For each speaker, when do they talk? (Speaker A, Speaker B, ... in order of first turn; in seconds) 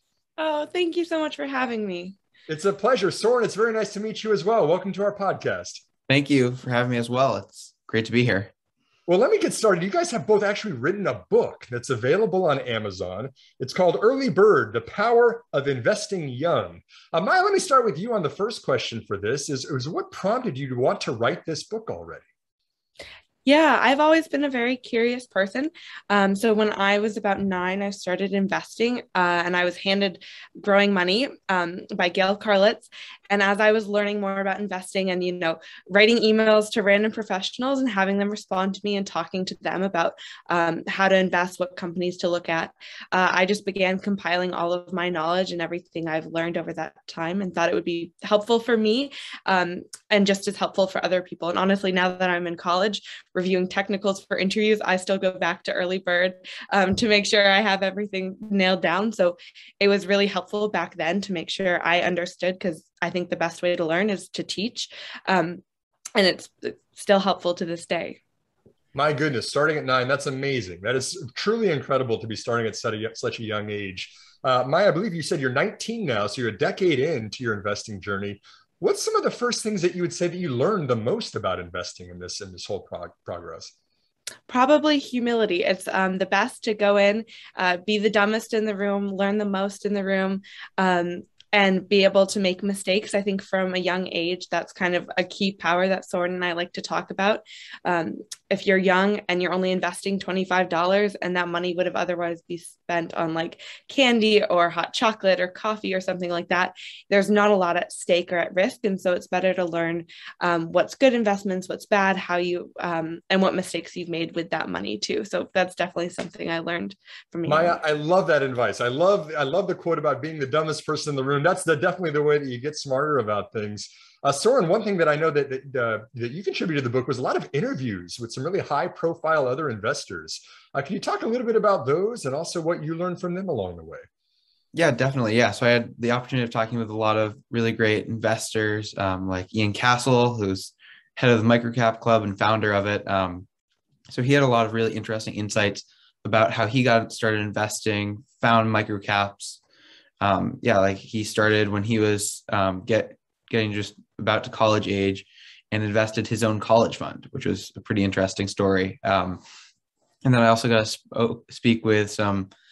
Speaker A: 0.4-2.1, 23.4-65.6, 66.2-68.2, 84.5-117.8
Speaker B: 2.5-5.8, 9.1-22.2, 68.9-83.7, 117.5-134.1
Speaker C: 6.1-8.5, 134.7-143.5, 144.1-149.6, 150.2-159.4, 160.2-162.5